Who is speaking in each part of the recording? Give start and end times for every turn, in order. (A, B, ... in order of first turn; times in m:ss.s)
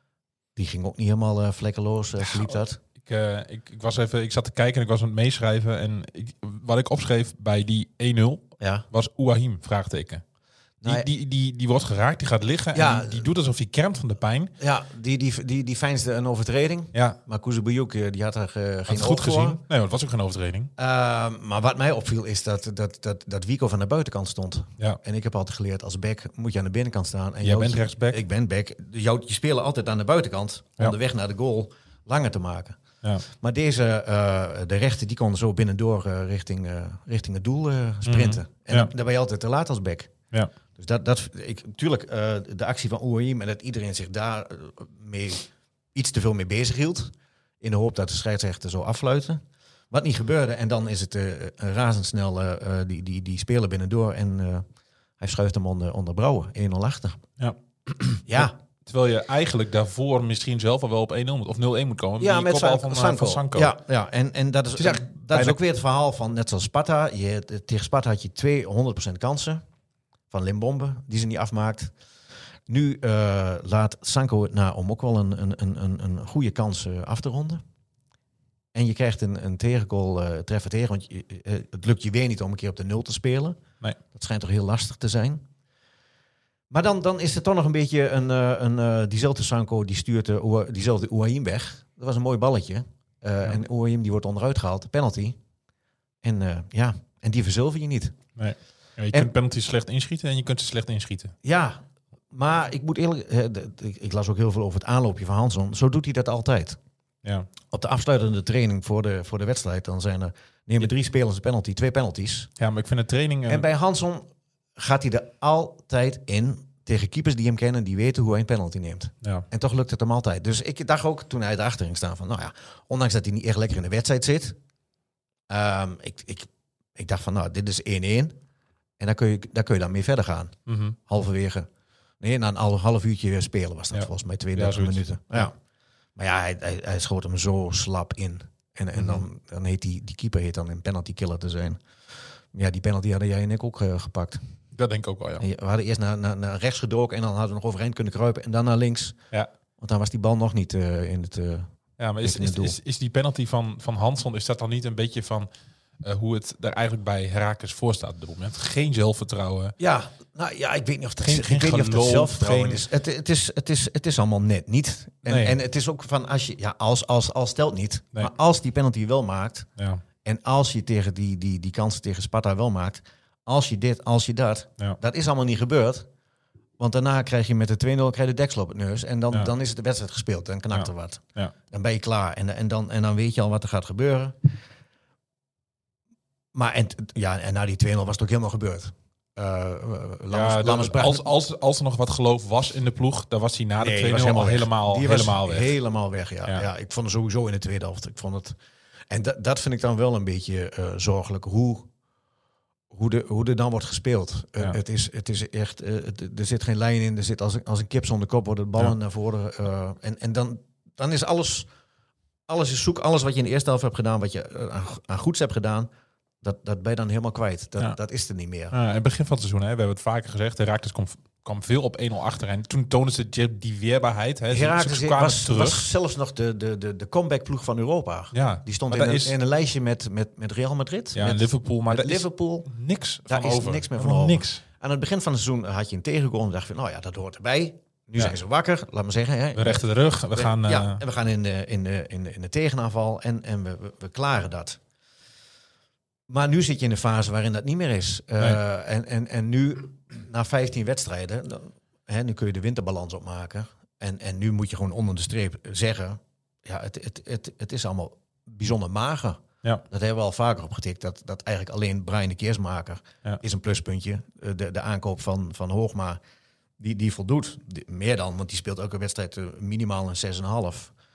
0:00.6-0:02.8 A
0:02.3-0:10.2 B
0:08.6-0:08.8 A
0:10.8-0:11.1 A
0:10.8-0:14.5 B
0:12.7-0:13.2 A
0:14.6-0:19.6 A
0:18.9-0:20.7 B
0:20.8-0:32.8 A
0:27.4-0:28.2 B
0:33.4-0:40.1 A
0:38.0-0:38.9 B
0:40.7-0:54.6 A
0:55.2-0:57.2 A
0:57.4-1:03.8 B
0:58.2-0:58.6 A
1:02.2-1:09.6 A
1:04.8-1:05.6 B
1:10.3-1:11.9 A
1:12.7-1:17.6 A
1:18.7-1:23.6 A
1:24.1-1:25.4 A
1:26.7-1:35.4 A
1:36.2-1:38.2 A
1:38.4-1:41.3 B
1:41.4-1:46.8 A
1:47.7-1:52.5 A
1:52.6-1:53.7 B
1:53.5-1:54.2 A
1:54.8-2:04.6 A
2:05.5-2:08.3 A
2:09.0-2:10.5 A
2:10.7-2:11.0 B
2:11.1-2:11.7 A
2:12.2-2:15.5 A
2:13.9-2:15.5 B
2:16.2-2:21.8 A
2:18.9-2:19.2 B
2:22.5-2:24.4 A
2:24.7-2:25.4 B
2:25.4-2:29.2 A
2:29.8-2:31.7 A
2:32.0-2:35.5 B
2:32.2-2:32.8 A
2:36.0-2:39.7 B
2:39.8-2:49.7 A
2:41.2-2:42.8 B
2:45.2-2:45.6 B
2:49.8-2:50.0 B
2:50.2-2:56.1 A
2:56.8-3:04.5 A
3:00.7-3:01.5 B
3:06.5-3:11.2 A
3:10.3-3:15.8 B
3:13.8-3:18.6 A
3:19.1-3:21.9 A
3:22.9-3:31.7 A
3:32.5-3:35.9 A
3:36.4-3:38.7 A
3:38.7-3:45.8 B
3:44.5-3:52.7 A
3:48.3-3:49.3 B
3:51.1-3:54.6 B
3:53.2-4:04.8 A
3:59.5-4:01.0 B
4:06.3-4:26.2 A
4:26.8-4:30.9 A